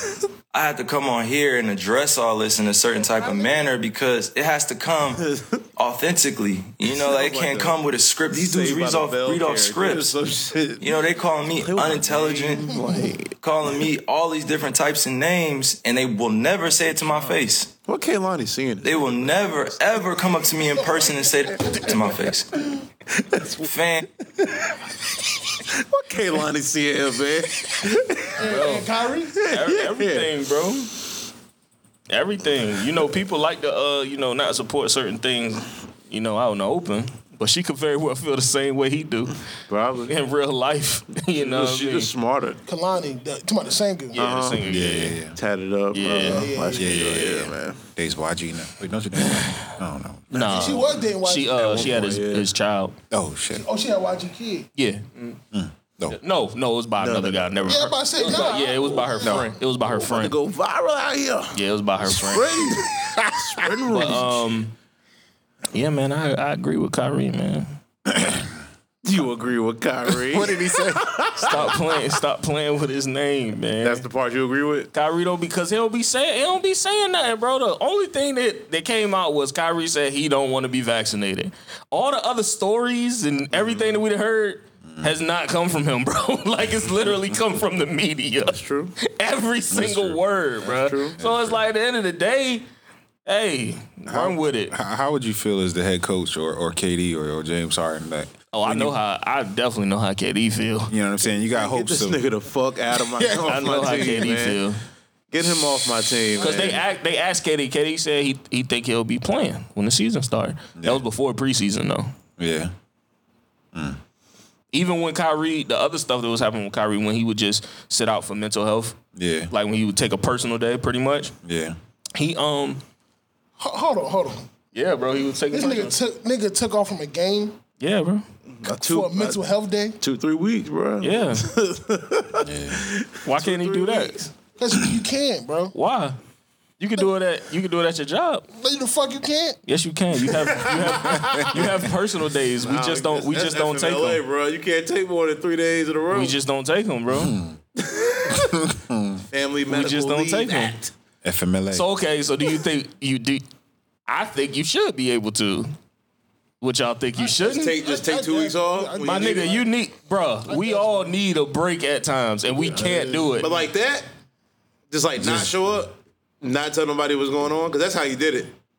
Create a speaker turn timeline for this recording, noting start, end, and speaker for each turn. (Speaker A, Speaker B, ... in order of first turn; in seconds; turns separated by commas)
Speaker A: 0.5-10.2, Speaker B: 5.2-5.6, Speaker B: 6.8-7.8, Speaker B: 8.3-10.9, Speaker A: 10.8-12.8, Speaker B: 11.5-13.3, Speaker A: 13.4-17.7, Speaker B: 17.8-19.6, Speaker A: 18.8-22.6, Speaker B: 23.1-23.7, Speaker A: 23.6-24.1, Speaker B: 24.4-24.7, Speaker B: 25.7-28.4, Speaker C: 28.4-29.3, Speaker D: 28.4-28.9, Speaker B: 29.4-30.3, Speaker D: 29.4-30.9, Speaker D: 32.1-39.4, Speaker B: 39.7-40.1, Speaker D: 40.1-42.1, Speaker B: 41.3-42.6, Speaker C: 42.6-44.2, Speaker B: 44.1-44.6, Speaker D: 44.1-45.2, Speaker E: 44.6-45.4, Speaker B: 45.3-47.8, Speaker D: 45.9-47.5, Speaker C: 46.1-47.0, Speaker E: 46.8-50.5, Speaker B: 50.3-51.0, Speaker D: 50.3-52.9, Speaker C: 50.5-52.0, Speaker B: 51.6-52.5, Speaker E: 53.1-53.6, Speaker C: 53.5-54.7, Speaker D: 54.7-55.4, Speaker E: 55.5-56.2, Speaker D: 56.1-60.3, Speaker B: 57.0-58.5, Speaker C: 57.7-59.5, Speaker B: 59.8-64.5, Speaker D: 61.5-62.6, Speaker E: 63.0-63.6, Speaker D: 63.9-64.7, Speaker D: 65.7-67.8, Speaker E: 68.1-68.5, Speaker B: 69.0-71.9, Speaker E: 70.1-71.7, Speaker D: 71.4-74.0, Speaker B: 73.8-74.9, Speaker D: 74.9-92.6, Speaker B: 88.4-88.9, Speaker E: 89.7-90.2, Speaker B: 90.6-91.2, Speaker E: 91.2-91.6, Speaker D: 93.2-94.7, Speaker E: 94.1-98.9, Speaker D: 98.5-100.9, Speaker E: 100.9-102.2, Speaker B: 101.5-104.6, Speaker D: 103.4-104.8, Speaker B: 105.3-106.8, Speaker D: 106.4-112.1, Speaker E: 110.8-111.0, Speaker E: 112.4-112.7, Speaker E: 113.7-114.0, Speaker D: 114.7-119.0, Speaker E: 119.1-119.5, Speaker D: 119.5-121.3, Speaker E: 121.4-121.8, Speaker D: 122.1-122.8, Speaker C: 123.6-124.5, Speaker D: 124.7-126.0, Speaker C: 125.5-127.6, Speaker D: 127.8-128.2, Speaker B: 128.6-129.4, Speaker C: 128.6-130.0, Speaker B: 130.0-134.3, Speaker D: 131.0-131.5, Speaker E: 132.4-132.8, Speaker D: 133.2-134.3, Speaker C: 134.6-135.7, Speaker D: 135.7-136.2, Speaker D: 136.8-138.4, Speaker C: 138.5-139.6, Speaker D: 139.7-144.2, Speaker B: 140.4-141.7, Speaker E: 141.1-141.6, Speaker B: 142.6-146.4, Speaker D: 146.1-147.4, Speaker E: 147.1-147.6, Speaker B: 147.8-148.5, Speaker E: 148.3-149.2, Speaker B: 149.3-150.9, Speaker D: 149.7-150.7, Speaker E: 151.2-151.9, Speaker D: 151.7-153.4, Speaker D: 154.1-155.7, Speaker D: 156.6-157.8, Speaker C: 157.2-159.7, Speaker B: 157.4-159.6, Speaker D: 159.0-163.5, Speaker C: 160.5-161.1, Speaker C: 162.8-163.3, Speaker B: 163.3-164.1, Speaker B: 164.9-168.5, Speaker E: 165.2-165.5